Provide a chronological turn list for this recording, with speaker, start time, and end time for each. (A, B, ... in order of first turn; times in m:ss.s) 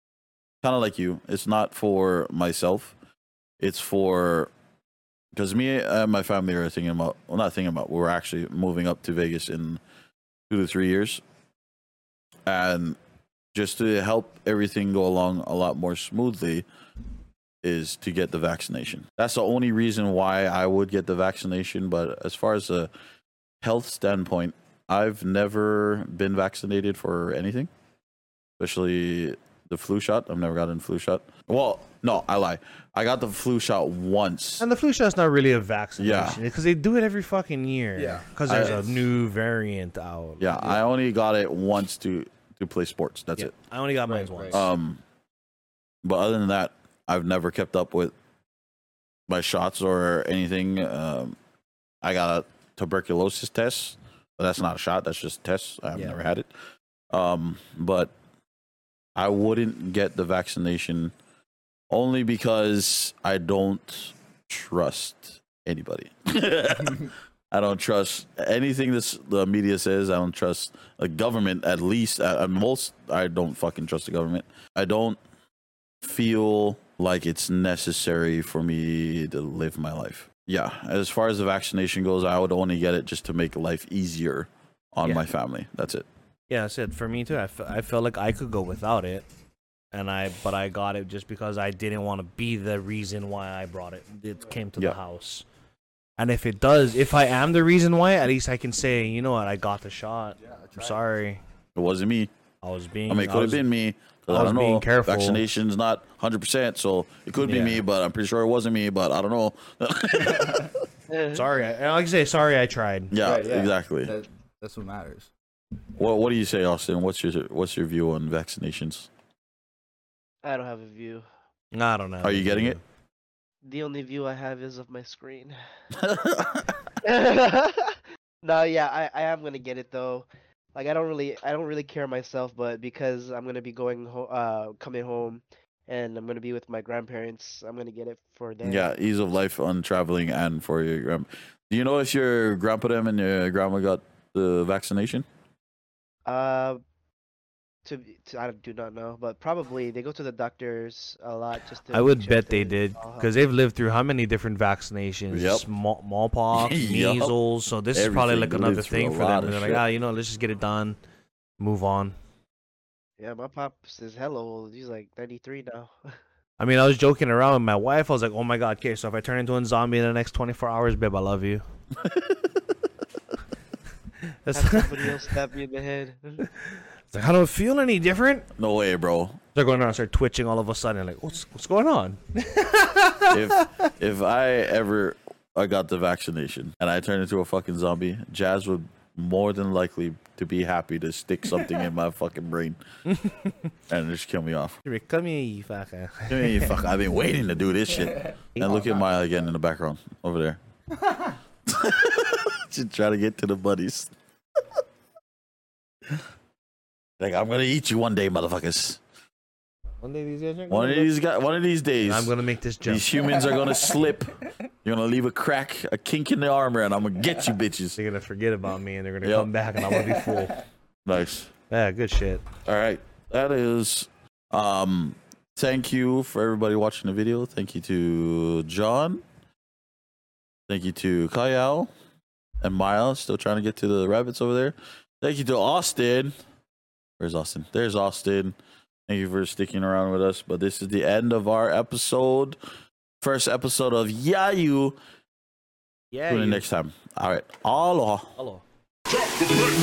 0:00.6-0:02.9 A
0:03.6-0:04.5 A
0:05.3-0:09.8 A
0:10.5-0:11.2 A
0:12.5-0:13.0 A
0:13.5-0:16.6 A
0:17.6-0:22.9 A
0:23.6-0:27.7 A
0:28.6-0:34.6 A
0:34.6-0:40.8 B
0:36.0-0:36.4 A
0:37.9-0:39.0 C
0:38.4-0:38.8 A
0:40.4-0:43.5 A
0:43.4-0:44.7 B
0:44.0-0:44.6 C
0:44.5-0:45.0 A
0:46.0-0:48.1 A
0:49.3-0:51.4 A
0:52.0-0:56.5 A
0:57.1-0:58.1 A
0:59.1-1:01.1 A
1:01.9-1:15.2 A
1:16.0-1:26.1 A
1:26.5-1:29.2 B
1:29.9-1:35.4 B
1:36.2-1:41.4 B
1:40.4-1:41.0 C
1:41.8-1:42.3 A
1:42.6-1:43.6 B
1:43.1-1:50.8 A
1:44.3-1:45.5 B
1:47.4-1:47.8 B
1:50.2-1:50.6 C
1:51.1-1:51.5 D
1:51.3-1:53.1 B
1:53.1-1:54.1 A
1:53.2-1:55.3 C
1:56.0-1:59.1 A
2:00.4-2:01.2 D
2:01.7-2:02.8 B
2:02.2-2:02.8 A
2:03.6-2:05.6 D
2:05.9-2:06.8 A
2:07.0-2:18.9 D
2:18.6-2:25.2 A
2:26.2-2:26.8 D
2:27.8-2:33.3 D
2:31.9-2:41.0 B
2:35.3-2:35.6 A
2:36.5-2:37.3 A
2:37.9-2:39.8 A
2:41.6-2:42.1 B
2:43.2-2:46.2 D
2:46.6-2:51.6 B
2:52.0-2:52.3 A
2:54.2-2:55.2 B
2:54.5-2:56.4 D
2:56.4-2:58.5 B
2:58.6-2:59.4 A
2:59.5-3:03.9 B
3:03.3-3:12.8 A
3:13.1-3:13.7 B
3:13.9-3:14.8 A
3:14.8-3:16.9 B
3:16.3-3:20.6 A
3:18.1-3:19.0 C
3:18.6-3:19.0 B
3:20.9-3:21.3 C
3:21.7-3:24.1 A
3:27.2-3:29.0 A
3:30.0-3:31.1 B
3:30.7-3:38.0 A
3:32.0-3:33.4 B
3:33.6-3:33.8 C
3:38.0-3:40.6 B
3:39.2-3:39.5 A
3:40.0-3:40.4 C
3:41.0-3:41.5 A
3:41.7-3:42.4 B
3:42.6-3:49.2 A
3:50.7-3:51.9 A
3:52.6-3:56.3 A
3:57.2-3:58.6 A
3:59.1-4:02.6 A
4:03.2-4:05.0 A
4:06.1-4:06.6 B
4:06.3-4:08.4 A
4:08.4-4:08.6 B